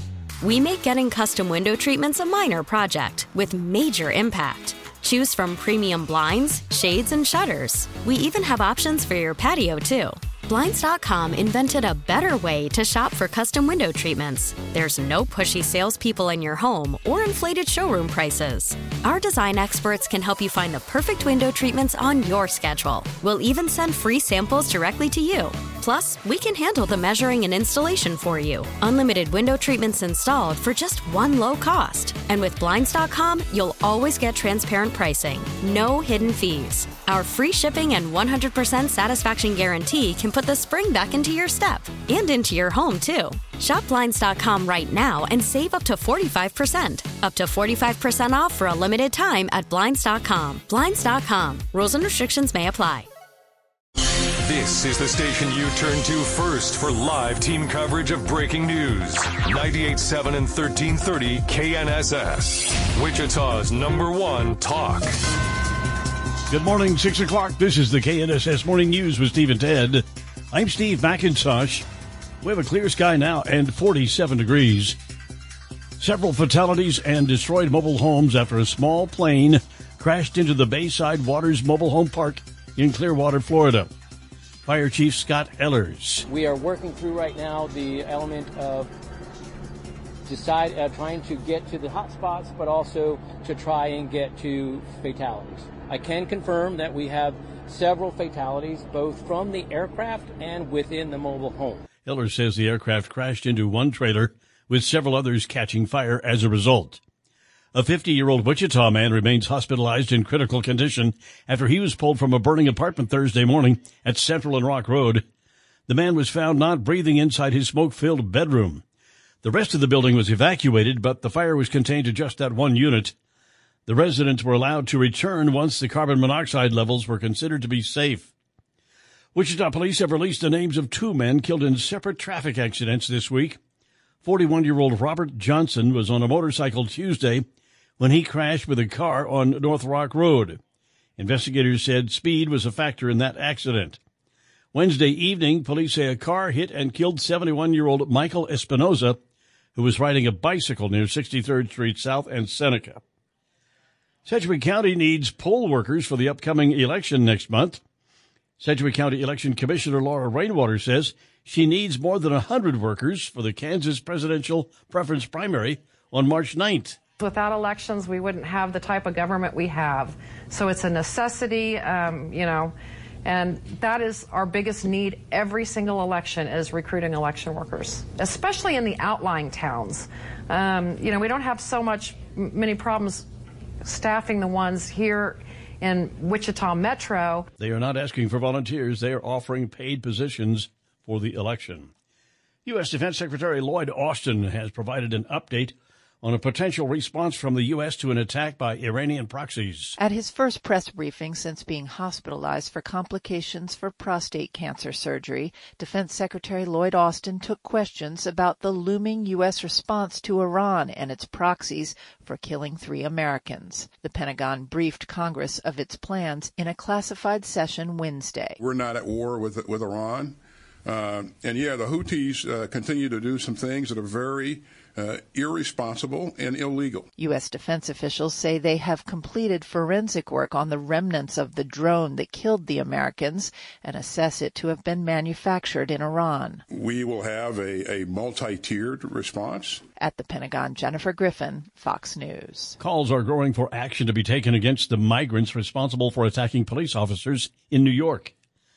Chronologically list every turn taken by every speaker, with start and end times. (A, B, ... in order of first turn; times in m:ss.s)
0:00.4-0:53.1 A
0:54.4-1:05.1 B
1:06.5-1:11.8 C
1:12.4-1:15.0 C
1:16.0-1:23.9 C
1:24.6-1:26.3 C
1:26.2-1:28.9 D
1:30.2-1:41.8 D
1:42.0-1:47.0 C
1:47.7-1:55.2 C
1:55.9-1:58.8 C
1:59.4-2:03.1 C
2:03.8-2:08.3 C
2:09.3-2:13.6 C
2:14.2-2:17.4 C
2:18.0-2:20.6 C
2:21.2-2:24.0 C
2:24.7-2:29.2 C
2:29.7-2:33.0 C
2:34.2-2:37.8 C
2:38.6-2:47.0 C
2:47.2-3:03.3 E
3:03.8-3:07.5 E
3:07.6-3:11.9 C
3:12.6-3:20.0 C
3:20.0-3:38.6 F
3:38.6-3:47.1 G
3:47.2-3:56.6 F
3:56.7-3:59.8 G
4:00.0-4:02.8 F
4:02.8-4:08.3 C